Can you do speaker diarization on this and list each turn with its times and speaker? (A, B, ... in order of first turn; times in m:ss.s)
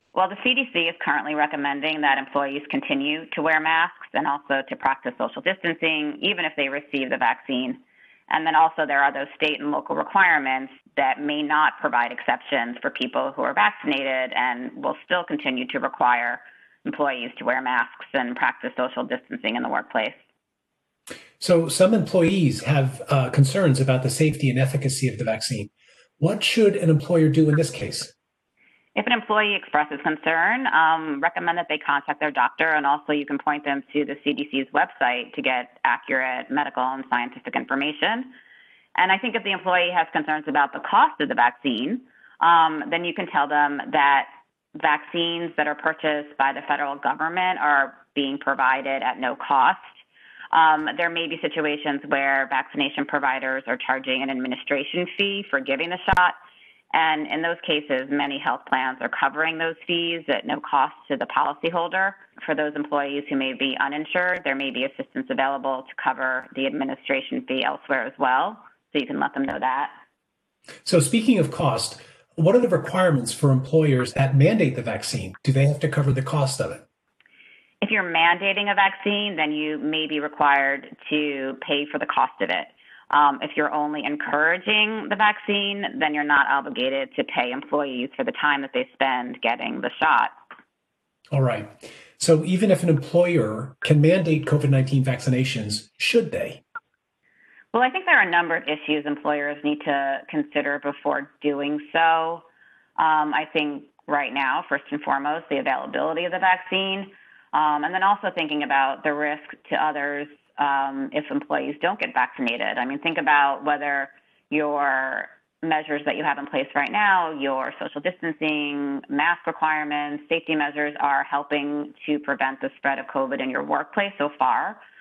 0:00.1-0:20.2 A
0:21.4-0:28.1 B
0:29.0-0:38.3 A
0:39.0-0:50.0 A
0:50.5-0:56.4 A
0:56.9-1:10.0 A
1:10.8-1:16.8 B
1:17.8-1:30.3 A
1:31.3-1:36.6 B
1:37.7-1:42.4 A
1:43.0-2:04.8 A